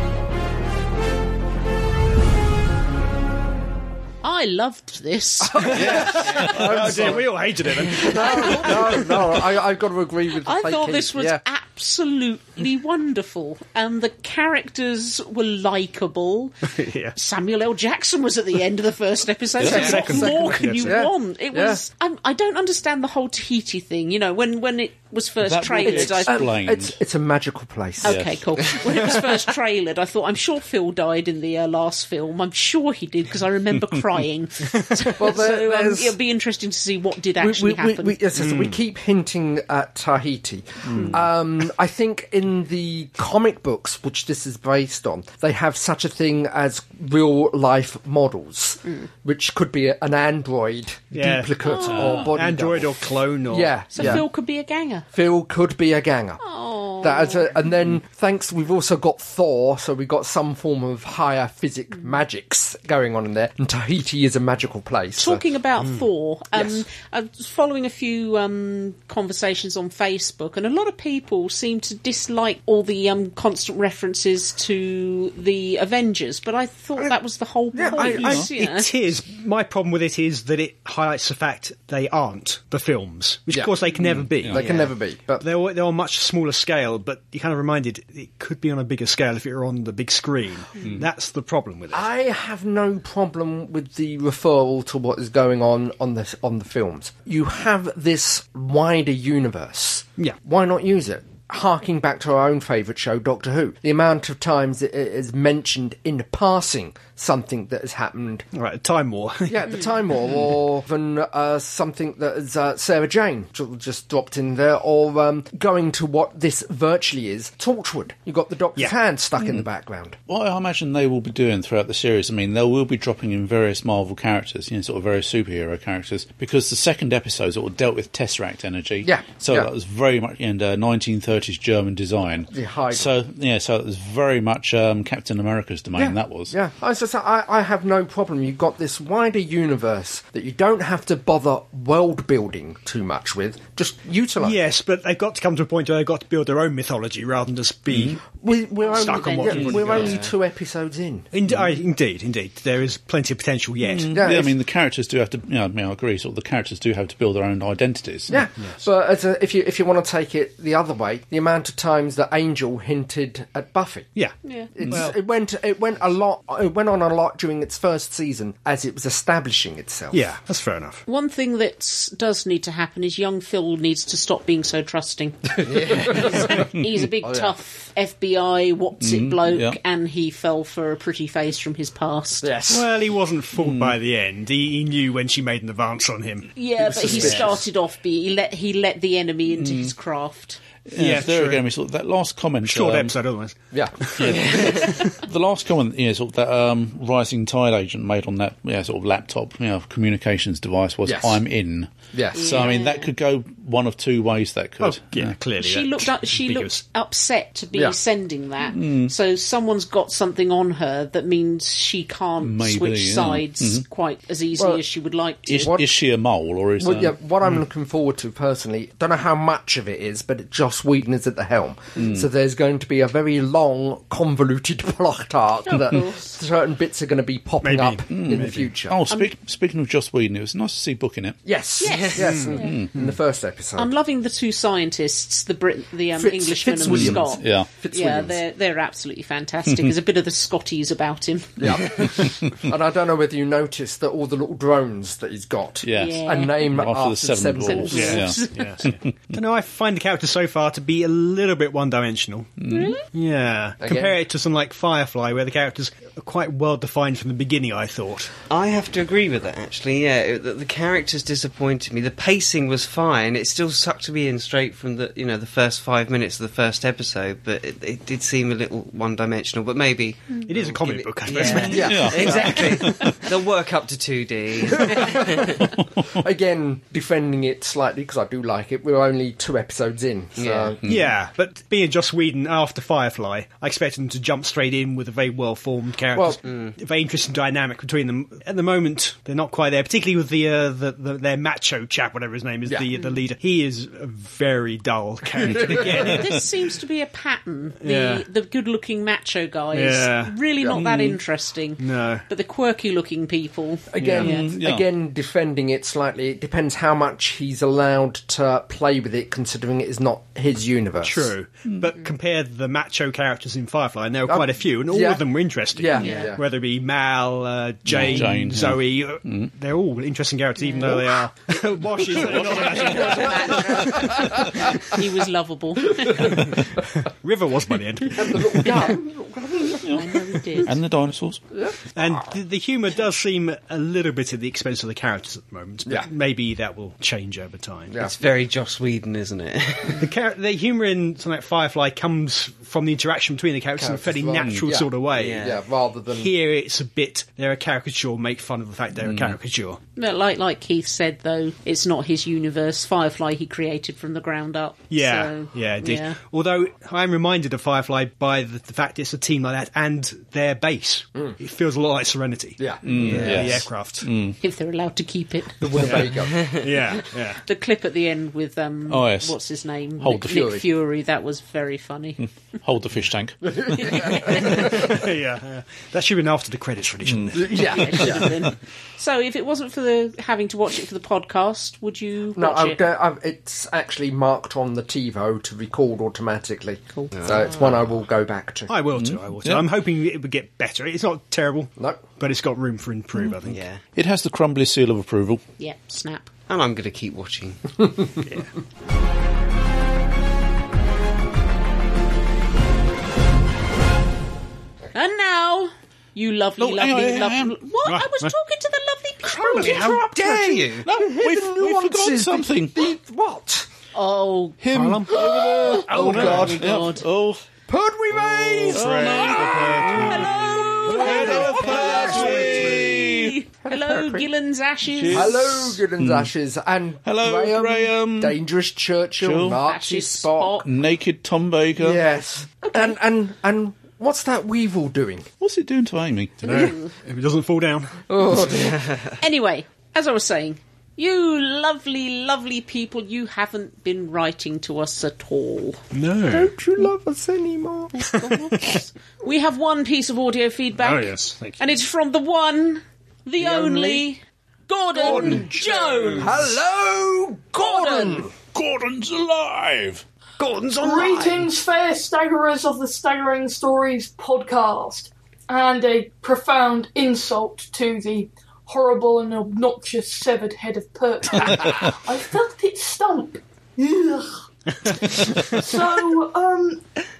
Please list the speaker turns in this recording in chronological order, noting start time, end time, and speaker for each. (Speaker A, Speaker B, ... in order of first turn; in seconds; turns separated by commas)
Speaker A: 4.2-6.5, Speaker B: 5.4-11.4, Speaker C: 5.6-9.2, Speaker D: 5.8-7.2, Speaker A: 8.1-8.7, Speaker A: 10.4-26.5, Speaker C: 16.6-17.1, Speaker D: 19.6-20.2, Speaker C: 19.6-21.0, Speaker B: 19.6-21.8, Speaker D: 25.4-26.9, Speaker B: 25.8-28.2, Speaker A: 28.0-38.2, Speaker D: 28.0-28.6, Speaker B: 35.1-36.1, Speaker B: 37.4-54.2, Speaker C: 38.4-38.8, Speaker D: 40.9-41.2, Speaker C: 51.1-51.5, Speaker A: 51.6-52.2, Speaker D: 51.8-52.4, Speaker C: 52.2-54.2, Speaker A: 53.9-55.1, Speaker B: 55.1-56.4, Speaker A: 56.4-57.5, Speaker B: 57.0-65.4, Speaker A: 65.2-78.9, Speaker B: 66.5-66.8, Speaker B: 77.7-78.5, Speaker D: 78.0-78.5, Speaker C: 78.1-92.1, Speaker D: 84.0-84.6, Speaker B: 84.4-85.4, Speaker D: 90.8-91.1, Speaker B: 91.9-108.5, Speaker C: 108.5-109.8, Speaker B: 109.5-120.2, Speaker D: 119.4-119.6, Speaker D: 120.3-136.5, Speaker B: 129.0-129.7, Speaker B: 132.5-133.1, Speaker B: 135.9-144.6, Speaker C: 144.4-148.2, Speaker D: 147.9-148.2, Speaker B: 148.4-151.3, Speaker A: 148.8-150.2, Speaker C: 148.9-150.2, Speaker C: 151.3-154.1, Speaker D: 153.8-158.4, Speaker B: 154.1-154.5, Speaker B: 158.3-164.1, Speaker C: 164.2-165.2, Speaker A: 164.4-164.7, Speaker B: 164.7-170.2, Speaker C: 170.1-171.0, Speaker A: 171.1-182.5, Speaker B: 175.6-176.7, Speaker B: 177.2-177.5, Speaker D: 179.0-179.8, Speaker B: 182.4-182.9, Speaker C: 182.7-186.5, Speaker D: 183.5-184.0, Speaker A: 186.6-190.6, Speaker B: 186.8-187.6, Speaker D: 189.5-189.9, Speaker D: 190.9-193.2, Speaker C: 190.9-191.6, Speaker C: 192.6-195.2, Speaker B: 193.7-194.6, Speaker D: 194.2-205.3, Speaker B: 201.0-201.4, Speaker B: 202.1-202.8, Speaker A: 202.3-203.1, Speaker C: 204.8-206.8, Speaker A: 205.6-215.7, Speaker D: 208.7-209.1, Speaker D: 212.4-213.8, Speaker B: 214.6-214.8, Speaker D: 215.5-217.2, Speaker B: 215.6-215.9, Speaker B: 216.8-229.0, Speaker D: 222.0-222.3, Speaker A: 225.7-226.4, Speaker C: 227.6-228.7, Speaker D: 228.1-231.4, Speaker B: 231.4-233.9, Speaker A: 231.8-232.8, Speaker C: 232.2-233.1, Speaker D: 232.6-232.9, Speaker A: 233.8-241.6, Speaker B: 236.1-238.4, Speaker D: 236.8-237.7, Speaker D: 239.7-239.9, Speaker B: 241.6-248.2, Speaker D: 242.2-242.5, Speaker D: 245.8-249.1, Speaker A: 245.9-246.6, Speaker A: 247.6-248.8, Speaker C: 247.9-252.5, Speaker D: 252.6-253.0, Speaker A: 252.7-253.0, Speaker C: 253.0-258.3, Speaker B: 253.8-254.1, Speaker E: 258.5-275.5, Speaker C: 270.4-272.1, Speaker D: 271.5-273.2, Speaker B: 271.7-273.1, Speaker B: 274.8-275.5, Speaker D: 275.6-276.1, Speaker B: 276.1-280.8, Speaker E: 280.4-280.8, Speaker C: 280.8-296.3, Speaker D: 280.8-281.1, Speaker B: 286.1-286.4, Speaker E: 286.4-286.7, Speaker D: 295.4-296.4, Speaker B: 295.4-296.1, Speaker A: 295.9-304.5, Speaker C: 297.8-298.2, Speaker C: 299.7-300.4, Speaker D: 300.6-301.2, Speaker C: 301.8-302.2, Speaker B: 303.9-311.3, Speaker D: 304.1-304.8, Speaker C: 311.0-324.3, Speaker B: 314.3-316.4, Speaker A: 315.9-316.3, Speaker E: 316.0-316.2, Speaker D: 317.9-319.5, Speaker A: 320.6-320.9, Speaker D: 322.2-322.8, Speaker A: 322.4-326.5, Speaker B: 323.5-324.4, Speaker C: 326.2-328.9, Speaker B: 328.1-330.0, Speaker D: 329.8-331.4, Speaker A: 329.9-330.7, Speaker B: 331.5-332.2, Speaker C: 331.9-337.9, Speaker E: 338.0-340.0, Speaker C: 340.0-345.5, Speaker B: 343.8-346.3, Speaker D: 344.4-344.7, Speaker E: 345.1-345.6, Speaker C: 346.1-349.8, Speaker D: 349.0-349.4, Speaker A: 349.9-356.2, Speaker C: 354.9-364.1, Speaker B: 362.6-363.4, Speaker D: 362.8-364.4, Speaker E: 363.0-363.5, Speaker A: 364.4-366.1, Speaker B: 365.6-366.5, Speaker C: 365.8-367.4, Speaker A: 367.4-372.2, Speaker D: 368.9-369.4, Speaker D: 370.0-370.4, Speaker B: 370.0-370.6, Speaker D: 372.2-374.6, Speaker B: 373.4-374.9, Speaker C: 374.1-378.2, Speaker D: 377.0-377.4, Speaker B: 377.3-378.3, Speaker A: 377.6-382.8, Speaker B: 382.3-388.9, Speaker E: 387.1-387.8, Speaker C: 388.7-393.6, Speaker D: 388.9-389.7, Speaker B: 391.8-392.0, Speaker E: 393.4-393.8, Speaker D: 393.9-395.4, Speaker A: 395.6-396.3, Speaker E: 396.5-397.8, Speaker A: 404.9-409.9, Speaker D: 406.6-407.6, Speaker C: 407.8-408.3, Speaker B: 409.2-413.7, Speaker E: 409.4-410.9, Speaker D: 410.8-412.9, Speaker A: 413.9-414.6, Speaker D: 414.6-417.4, Speaker C: 414.7-415.2, Speaker B: 415.1-416.6, Speaker A: 415.2-417.1, Speaker C: 415.9-416.7, Speaker B: 417.7-419.9, Speaker C: 418.6-422.9, Speaker D: 418.7-423.4, Speaker A: 419.0-425.5, Speaker B: 420.9-422.8, Speaker B: 423.6-424.3, Speaker D: 424.9-426.3, Speaker B: 425.1-430.6, Speaker D: 427.0-428.4, Speaker D: 429.2-429.6, Speaker A: 429.6-430.6, Speaker D: 430.6-432.0, Speaker B: 431.8-435.3, Speaker A: 432.6-432.9, Speaker D: 435.4-436.7, Speaker C: 436.4-438.0, Speaker A: 436.5-436.9, Speaker B: 438.1-438.9, Speaker A: 439.2-445.8, Speaker C: 445.9-446.5, Speaker B: 446.3-448.1, Speaker A: 447.9-456.3, Speaker C: 448.2-448.7, Speaker C: 450.8-451.8, Speaker B: 453.4-453.9, Speaker B: 455.0-455.5, Speaker B: 456.2-458.3, Speaker D: 457.6-460.0, Speaker E: 460.4-461.1, Speaker C: 460.4-461.4, Speaker F: 460.8-476.8, Speaker C: 474.9-475.6